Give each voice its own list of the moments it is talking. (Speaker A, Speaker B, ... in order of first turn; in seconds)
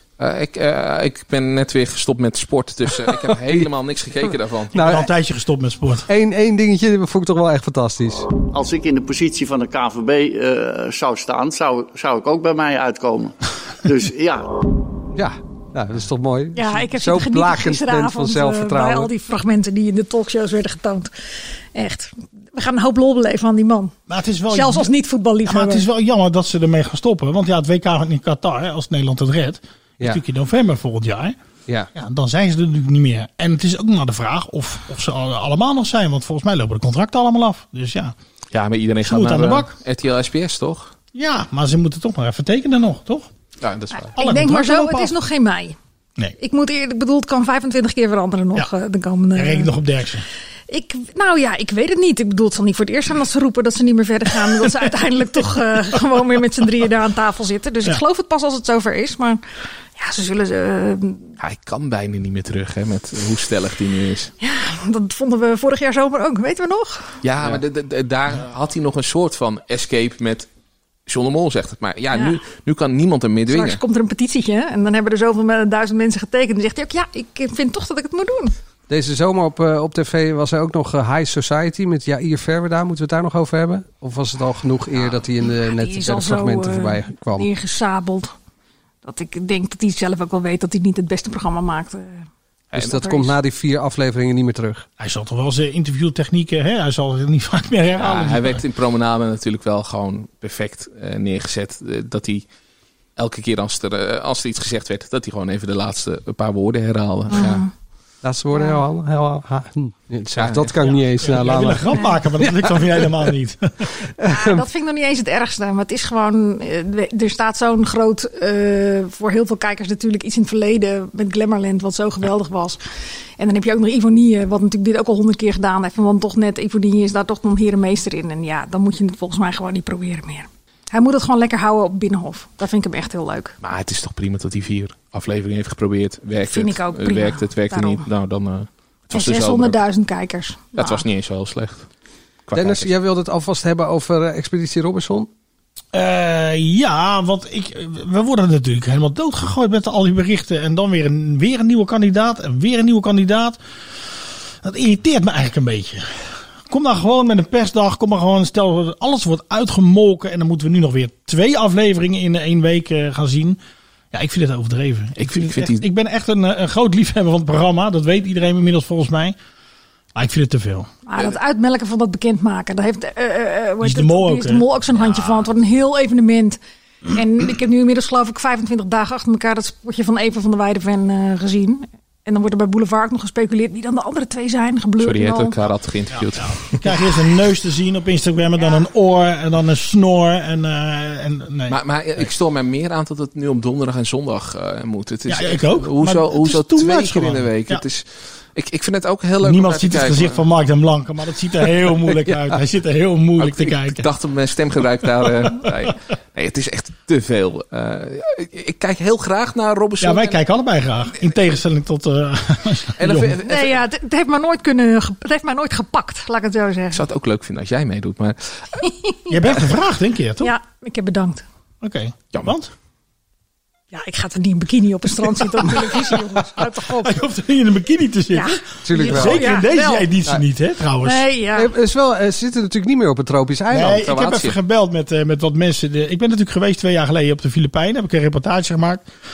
Speaker A: 0.2-4.7, 38.5-40.9, 43.6-44.1, 61.4-64.3, 67.2-70.5, 71.1-73.8, 84.9-85.2, 92.7-93.0, 98.0-102.5, 103.2-107.7, 110.3-111.0, 133.6-139.8, 140.8-141.9, 142.5-142.9, 165.2-165.8, 185.0-186.8, 191.7-200.4, 203.4-210.4, 213.0-213.8, 216.9-218.6, 234.0-234.6
Speaker B: 4.7-5.1, 6.1-8.2, 15.1-19.1, 78.9-87.5, 92.8-94.9, 108.2-113.1, 114.2-114.6, 142.6-145.3, 228.8-229.6, 231.6-234.0
Speaker C: 4.8-6.1, 24.1-24.9, 25.4-31.4, 31.9-38.1, 39.0-39.7, 41.1-43.3, 44.2-45.1, 49.4-50.2, 95.0-98.6, 111.2-113.9, 145.9-153.6, 154.6-163.6, 164.1-169.4, 170.2-170.9, 173.8-174.7, 186.2-192.3, 195.3-197.8, 199.4-204.1, 210.0-213.4, 219.3-220.5, 221.8-222.7, 225.6-226.0, 226.9-231.2, 233.7-239.1
Speaker D: 8.5-14.5
Speaker E: 16.6-21.1, 21.8-23.9, 24.5-25.9, 44.0-45.8, 46.4-49.7, 50.7-59.4, 60.0-61.3, 64.4-67.1, 72.1-72.4, 73.5-78.5, 85.5-88.3, 89.0-92.2, 107.3-107.7, 108.5-108.8, 114.3-122.8, 123.4-133.6, 136.5-138.1, 139.1-141.0, 171.1-176.6, 177.1-185.6, 213.5-217.0, 218.8-219.4, 220.4-221.4, 223.9-227.2, 228.3-230.1, 231.0-231.7